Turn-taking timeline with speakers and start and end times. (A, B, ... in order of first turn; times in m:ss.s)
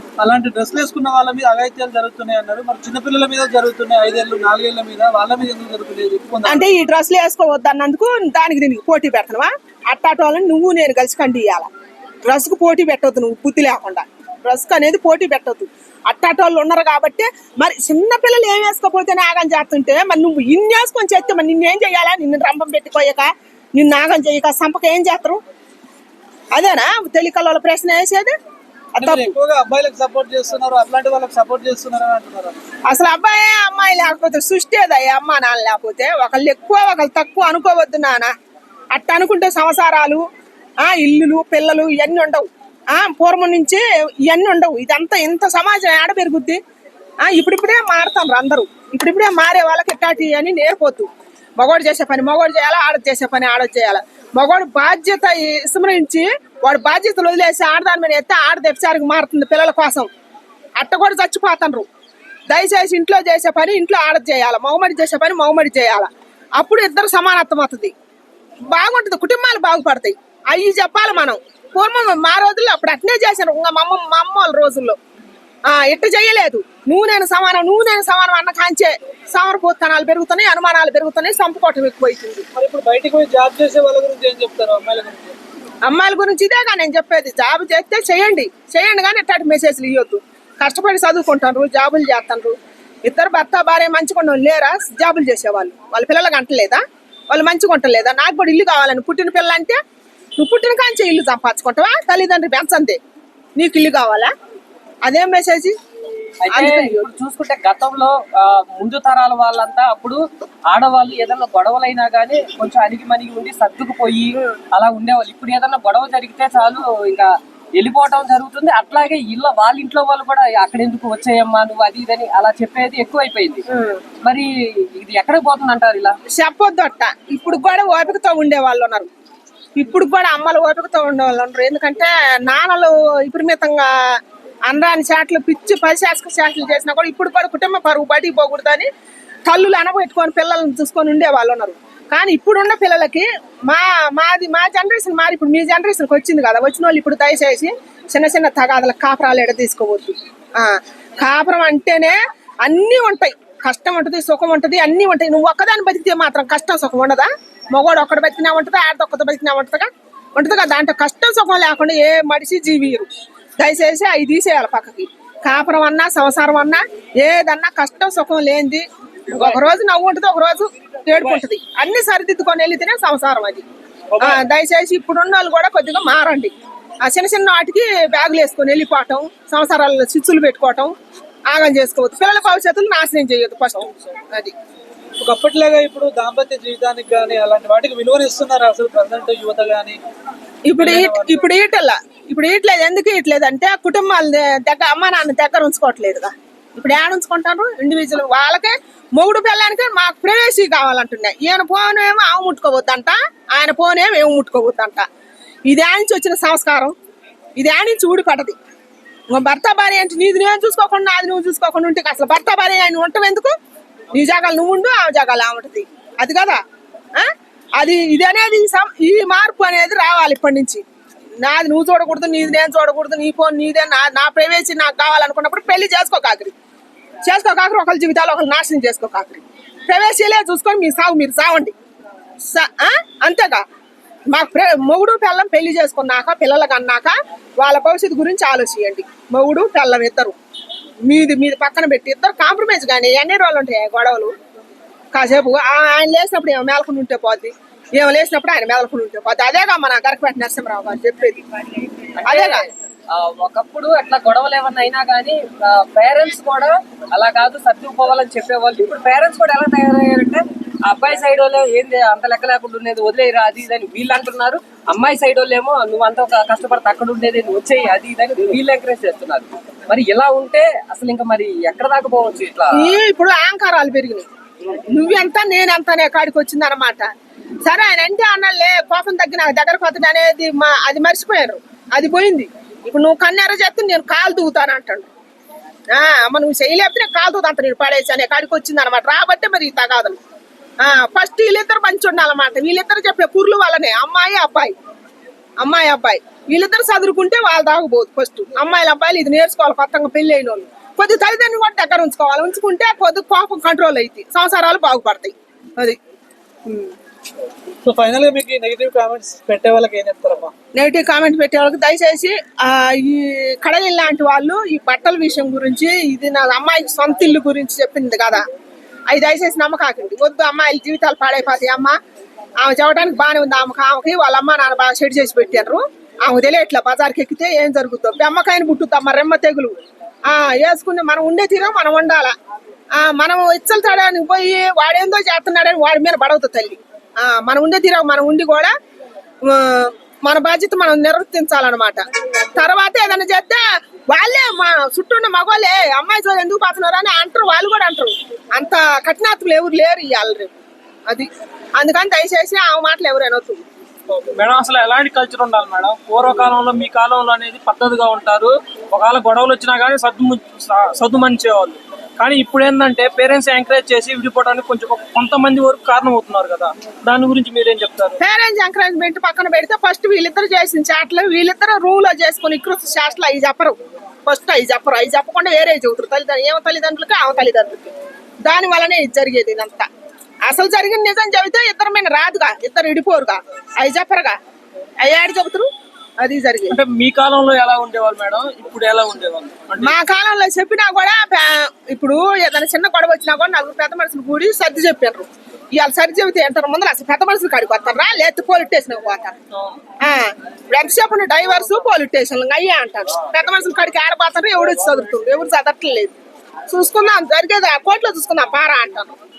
0:00.2-0:06.7 A
0:06.4-0:11.7 B
0:12.2-0:25.4 B
0:26.5-0:28.3 B
0:28.9-0:29.3 B
0:29.0-0:32.6 A
0:32.9-0:38.3 B
0:38.9-0:40.2 B
0:40.8-0:46.6 B
0:47.2-1:00.1 B
1:00.8-1:01.9 B
1:02.5-1:07.9 B
1:08.7-1:15.0 B
1:15.7-1:22.4 B
1:22.5-1:25.4 A
1:25.8-1:39.8 B
1:40.4-1:43.0 B
1:43.6-1:44.3 B
1:45.0-1:45.7 B
1:46.4-2:03.6 C
1:46.5-1:47.1 B
2:03.7-2:04.0 B
2:04.2-2:06.1 C
2:06.4-2:09.1 B
2:09.8-2:18.9 B
2:19.5-2:43.1 B
2:43.6-2:53.6 B
2:49.3-2:49.6 D
2:54.1-2:54.4 D
2:54.2-2:56.5 B
2:57.0-3:00.9 B
3:01.5-3:04.5 B
3:05.2-3:10.0 A
3:10.6-3:25.0 B
3:10.8-3:11.4 A
3:25.7-3:26.9 B
3:27.6-3:28.6 B
3:29.3-3:33.5 B
3:34.1-3:36.6 B
3:37.2-3:40.8 B
3:41.4-3:46.5 B
3:47.2-3:51.7 B
3:52.5-3:53.6 B
3:54.3-4:00.4 B
4:01.0-4:04.3 B
4:05.1-4:11.4 B
4:12.2-4:33.0 C
4:12.2-4:12.6 B
4:32.7-4:34.3 B
4:34.9-4:37.1 B
4:37.6-4:45.1 B
4:45.9-4:50.2 B
4:50.8-4:54.7 B
4:55.6-5:06.0 B
5:07.8-5:10.5 A
5:10.7-5:18.4 B
5:19.1-5:22.0 B
5:22.6-5:29.7 B
5:30.3-5:32.3 B
5:33.0-5:38.7 B
5:39.4-5:50.5 B
5:51.1-5:53.6 B
5:54.2-6:08.2 D
6:08.2-6:17.9 B
6:18.4-6:19.9 B
6:20.4-6:24.4 B
6:25.0-6:25.7 B
6:26.2-6:26.8 B
6:26.7-6:30.0 D
6:29.8-6:39.3 B
6:39.5-6:39.8 D
6:40.0-6:46.2 B
6:46.7-6:49.2 B